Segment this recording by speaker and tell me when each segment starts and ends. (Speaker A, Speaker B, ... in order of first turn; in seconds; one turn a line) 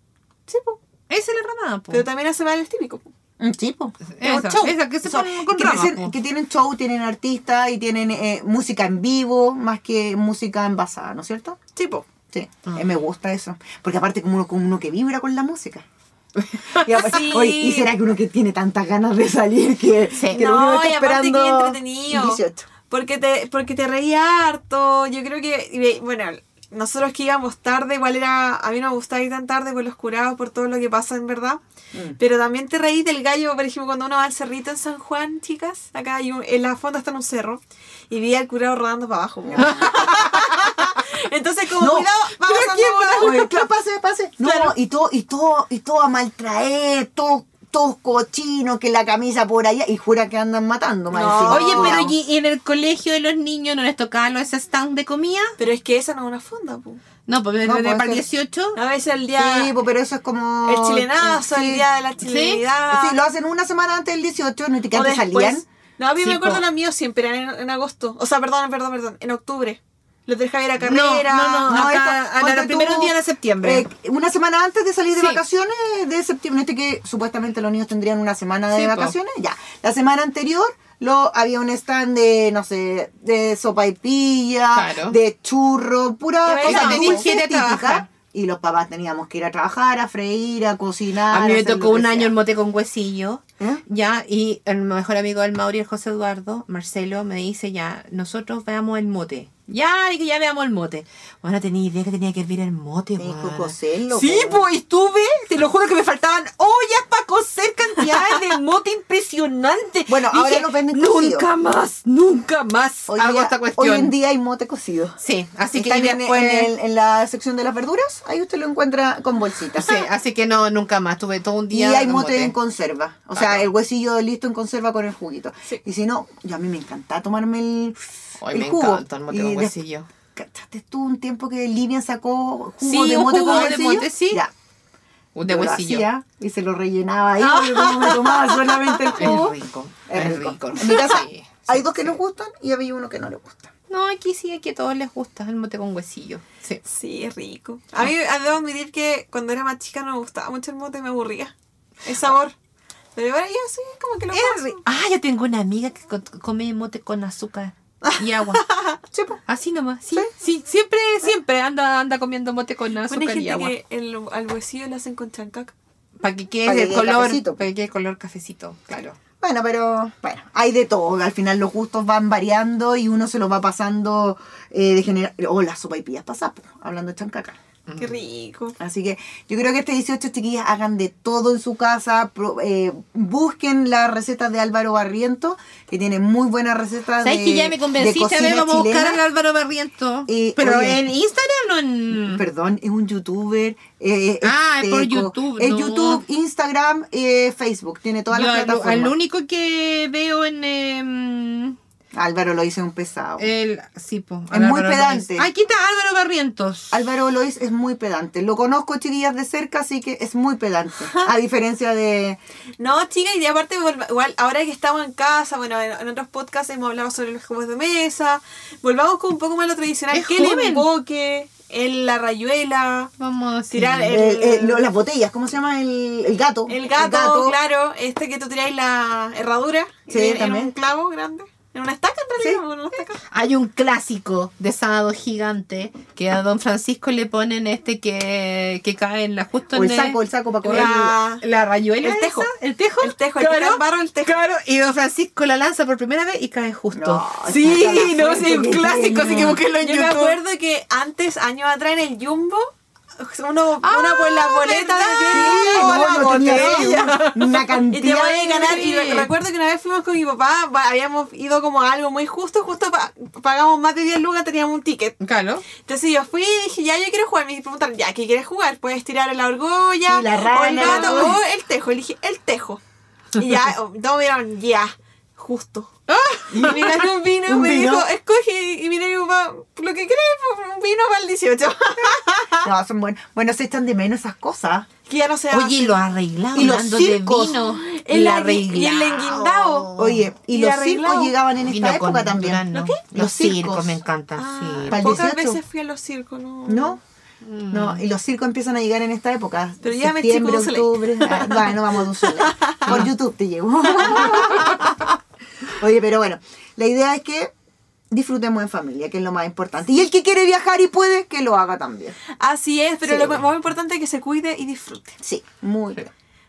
Speaker A: 0.5-0.8
Speaker B: 1.1-2.0
Speaker A: 1.9-3.1
Speaker C: 3.4-11.6
Speaker B: 4.1-6.1
Speaker A: 11.8-12.0
Speaker C: 12.3-15.8
Speaker C: 16.7-22.7
Speaker A: 16.9-17.9
Speaker B: 20.2-20.4
Speaker A: 20.3-31.6
Speaker C: 31.9-32.2
Speaker A: 32.2-43.6
Speaker C: 39.5-40.6
Speaker B: 39.6-39.9
Speaker C: 41.8-52.1
Speaker A: 44.4-44.7
Speaker A: 51.1-52.0
Speaker B: 51.5-55.5
Speaker A: 55.6-57.0
Speaker B: 57.3-58.8
Speaker C: 57.6-58.2
Speaker A: 58.8-59.7
Speaker C: 59.4-61.8
Speaker A: 60.6-63.2
Speaker B: 62.2-62.6
Speaker C: 62.9-65.6
Speaker A: 64.9-71.7
Speaker B: 66.2-66.7
Speaker B: 70.8-73.8
Speaker C: 71.6-92.3
Speaker B: 78.7-79.1
Speaker B: 84.7-85.2
Speaker A: 86.4-87.3
Speaker B: 86.6-88.0
Speaker B: 91.3-114.1
Speaker C: 103.2-104.7
Speaker C: 110.1-111.5
Speaker C: 113.1-115.2
Speaker B: 115.2-116.7
Speaker C: 115.7-120.0
Speaker B: 119.8-122.5
Speaker C: 121.7-129.7
Speaker B: 123.3-123.6
Speaker B: 128.4-130.1
Speaker C: 130.3-134.5
Speaker B: 132.8-134.4
Speaker B: 135.3-136.1
Speaker C: 135.4-139.5
Speaker A: 137.4-139.1
Speaker B: 139.1-142.2
Speaker C: 140.1-143.7
Speaker B: 143.9-146.8
Speaker A: 146.8-152.5
Speaker A: 153.2-154.8
Speaker B: 154.3-158.7
Speaker A: 158.0-159.0
Speaker C: 159.1-159.4
Speaker B: 159.5-163.7
Speaker A: 163.1-165.7
Speaker B: 166.2-169.2
Speaker C: 166.6-167.6
Speaker C: 169.4-177.6
Speaker B: 177.9-178.1
Speaker A: 178.0-178.8
Speaker C: 178.8-189.2
Speaker B: 187.2-192.4
Speaker C: 190.3-191.0
Speaker C: 192.1-199.1
Speaker B: 194.4-196.2
Speaker B: 198.3-201.8
Speaker C: 202.1-203.5
Speaker B: 203.4-207.0
Speaker C: 204.5-205.5
Speaker C: 206.9-212.4
Speaker A: 212.8-223.1
Speaker B: 220.1-220.9
Speaker B: 223.2-224.1
Speaker A: 223.7-224.8
Speaker C: 224.1-227.6
Speaker A: 226.7-233.2
Speaker C: 230.1-230.7
Speaker B: 233.2-250.4
Speaker C: 239.7-241.2
Speaker A: 240.6-241.4
Speaker A: 242.0-244.4
Speaker C: 246.9-249.6
Speaker A: 249.8-257.3
Speaker B: 253.8-257.8
Speaker C: 255.3-258.8
Speaker A: 257.9-265.1
Speaker B: 258.5-259.3
Speaker B: 265.2-265.6
Speaker A: 265.8-272.8
Speaker C: 270.1-271.4
Speaker B: 270.7-271.4
Speaker A: 273.3-276.0
Speaker B: 276.1-277.0
Speaker C: 276.5-278.1
Speaker A: 276.5-282.7
Speaker C: 282.6-284.9
Speaker A: 285.1-286.0
Speaker B: 285.5-290.3
Speaker C: 286.5-287.6
Speaker A: 287.7-289.9
Speaker C: 289.9-294.0
Speaker A: 290.5-291.3
Speaker B: 291.6-295.2
Speaker A: 292.7-293.0
Speaker A: 294.4-297.0
Speaker C: 294.9-295.6
Speaker C: 296.6-297.0
Speaker B: 297.4-298.0
Speaker C: 297.7-304.9
Speaker A: 299.8-301.7
Speaker A: 302.2-303.0
Speaker A: 304.0-304.9
Speaker C: 305.7-307.5
Speaker C: 308.1-312.2
Speaker A: 312.4-315.2
Speaker C: 313.0-313.4
Speaker C: 315.2-316.0